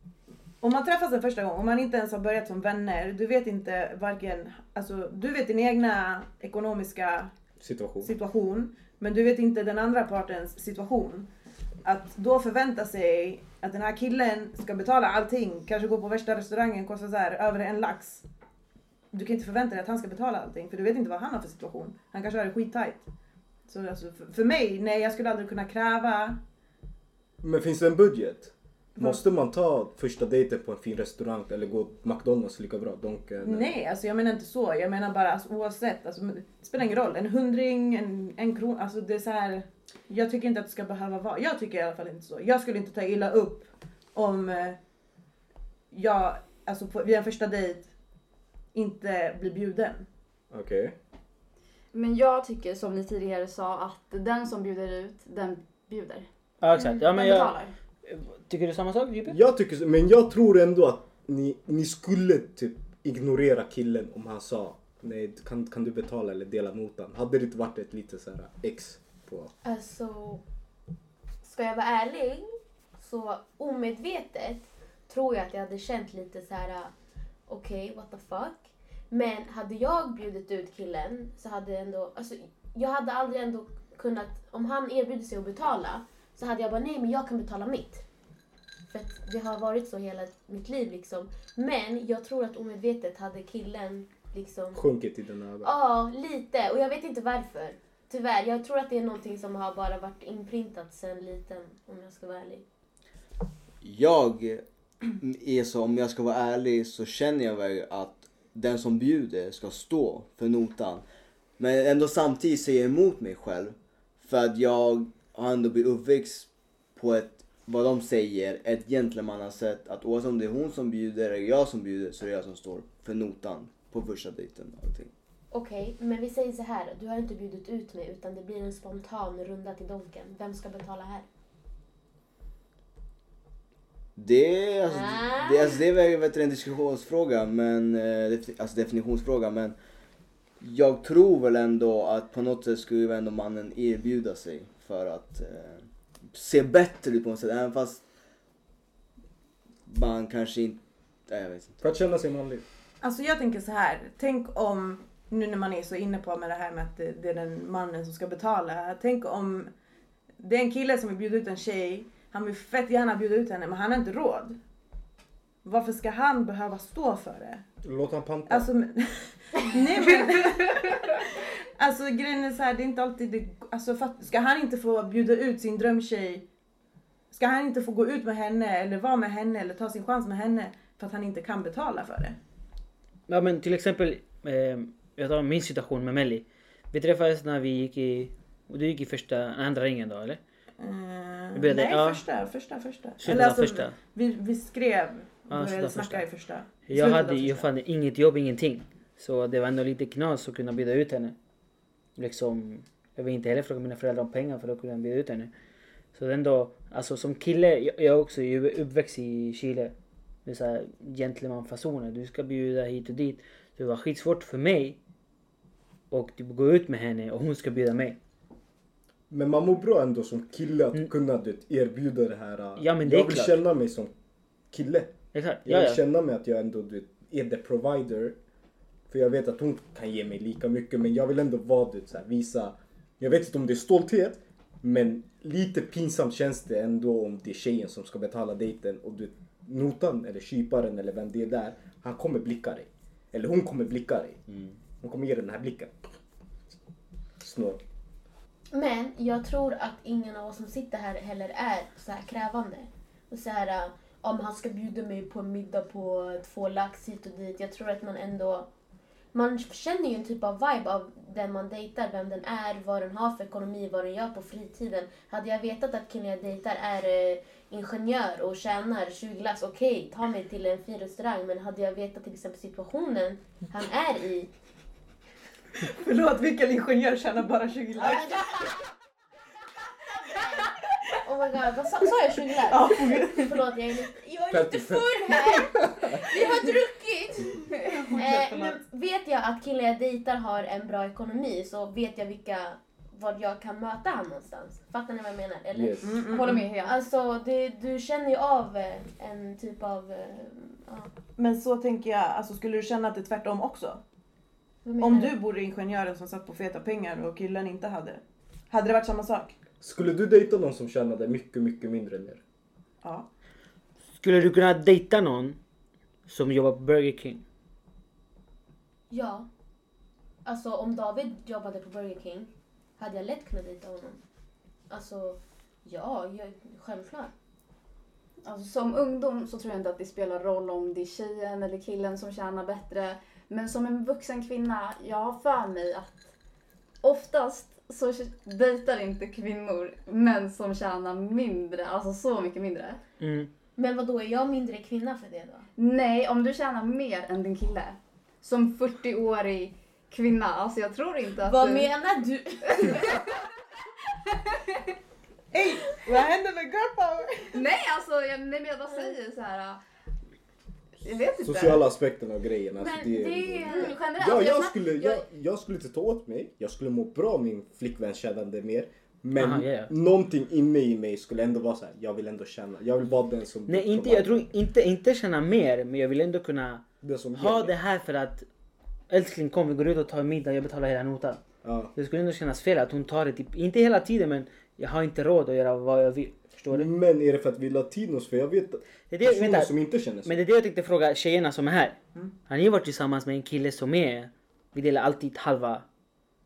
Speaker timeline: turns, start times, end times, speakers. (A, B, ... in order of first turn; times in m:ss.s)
0:00.6-0:07.3 A
0:07.6-0:08.1 B
0:08.0-0:11.3 A
0:11.8-0:18.2 A
0:19.1-0:23.1 A
0:23.7-0:26.4 A
0:27.4-0:33.8 B
0:33.4-0:44.8 A
0:45.9-0:47.9 A
0:48.7-0:50.1 A
0:50.5-0:51.0 B
0:51.9-0:56.3 C
0:56.6-0:59.4 D
0:56.9-0:57.7 C
0:59.3-1:09.5 B
1:09.6-1:10.4 E
1:11.4-1:16.9 E
1:17.5-1:28.0 E
1:28.9-1:34.8 E
1:34.7-1:35.7 B
1:35.6-1:42.6 E
1:43.8-1:51.0 F
1:51.6-2:05.1 F
2:05.5-2:11.3 E
2:14.2-2:19.8 F
2:14.9-2:15.8 E
2:20.6-2:28.0 F
2:29.9-2:31.8 F
2:31.8-2:32.6 B
2:33.0-2:39.7 A
2:40.4-2:44.6 A
2:45.6-2:47.6 A
2:47.8-2:48.7 B
2:48.5-2:56.5 A
2:57.3-3:02.4 A
3:03.3-3:10.4 D
3:10.8-3:17.7 A
3:11.5-3:12.2 D
3:13.2-3:14.0 D
3:15.5-3:16.3 D
3:16.9-3:21.4 D
3:22.2-3:25.5 D
3:26.1-3:29.9 D
3:30.5-3:35.0 D
3:36.1-3:38.2 D
3:39.3-3:44.1 B
3:42.8-3:43.6 D
3:44.7-3:48.4 B
3:45.3-3:46.0 D
3:49.1-4:04.4 B
4:05.0-4:05.9 B
4:07.4-4:07.8 B
4:08.7-4:18.7 E
4:19.3-4:34.5 E
4:35.8-4:38.7 A
4:38.0-4:38.8 E
4:40.1-5:01.1 E
4:42.5-4:43.8 A
4:44.5-4:46.3 B
4:47.9-4:48.8 A
4:55.7-4:56.2 B
4:56.0-4:56.6 A
4:56.3-4:57.0 C
5:01.4-5:04.0 A
5:04.8-5:05.4 E
5:05.0-5:09.6 A
5:09.8-5:12.4 B
5:13.0-5:13.3 A
5:14.2-5:15.6 D
5:16.3-5:17.4 D
5:19.1-5:19.5 E
5:20.4-5:24.2 E
5:24.9-5:27.3 E
5:28.4-5:36.3 C
5:37.0-5:43.0 C
5:43.2-5:43.5 D
5:43.8-5:45.7 E
5:45.8-5:51.9 C
5:51.4-5:53.3 E
5:55.5-5:57.6 A
5:57.5-5:59.8 C
6:01.0-6:01.9 C
6:01.4-6:14.5 B
6:02.8-6:04.0 E
6:03.6-6:05.2 C
6:09.4-6:09.9 D
6:13.7-6:18.5 D
6:17.0-6:17.7 B
6:19.1-6:21.4 D
6:21.6-6:21.9 B
6:22.0-6:26.9 D
6:26.7-6:30.4 B
6:29.1-6:32.0 D
6:32.5-6:35.9 D